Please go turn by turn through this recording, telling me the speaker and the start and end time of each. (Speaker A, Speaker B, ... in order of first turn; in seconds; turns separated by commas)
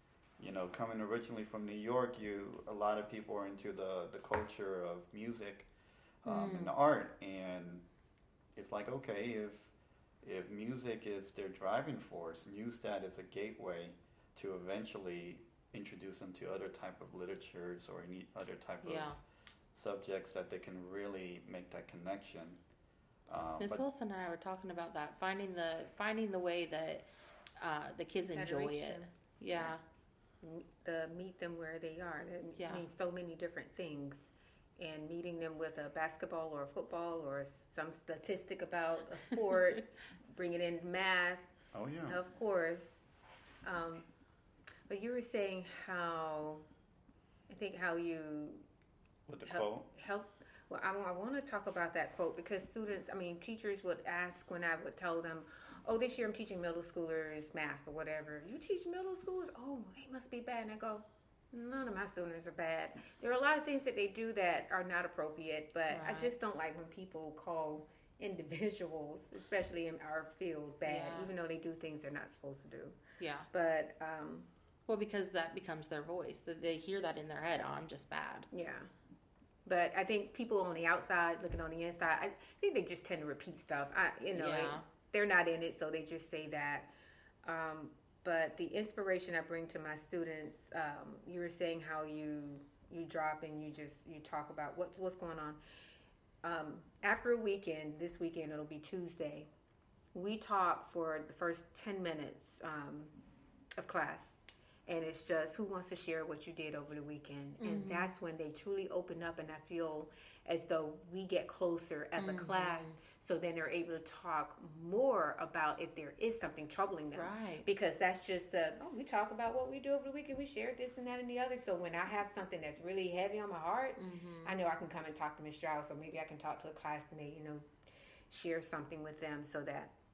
Speaker A: 0.4-5.7, Speaker A: 6.2-7.8, Speaker B: 6.3-6.7, Speaker A: 8.6-19.2, Speaker B: 18.8-19.2, Speaker A: 19.7-22.6, Speaker A: 23.3-23.8, Speaker B: 23.6-27.0, Speaker B: 27.6-29.8, Speaker C: 28.2-29.7, Speaker C: 30.4-41.5, Speaker B: 32.6-32.8, Speaker A: 41.7-42.2, Speaker C: 42.1-43.0, Speaker C: 43.6-44.1, Speaker C: 44.9-46.6, Speaker C: 47.5-48.6, Speaker A: 49.3-49.9, Speaker C: 49.5-73.0, Speaker B: 65.9-66.3, Speaker B: 70.8-71.3, Speaker B: 73.2-73.5, Speaker C: 73.5-74.5, Speaker B: 74.9-78.5, Speaker C: 78.5-78.9, Speaker C: 79.6-86.9, Speaker B: 84.3-84.8, Speaker C: 87.4-95.6, Speaker C: 96.4-99.5, Speaker C: 100.1-103.1, Speaker C: 103.8-127.7, Speaker B: 107.6-108.1, Speaker B: 112.2-113.0, Speaker B: 117.1-117.7, Speaker B: 124.0-124.5, Speaker C: 128.3-129.9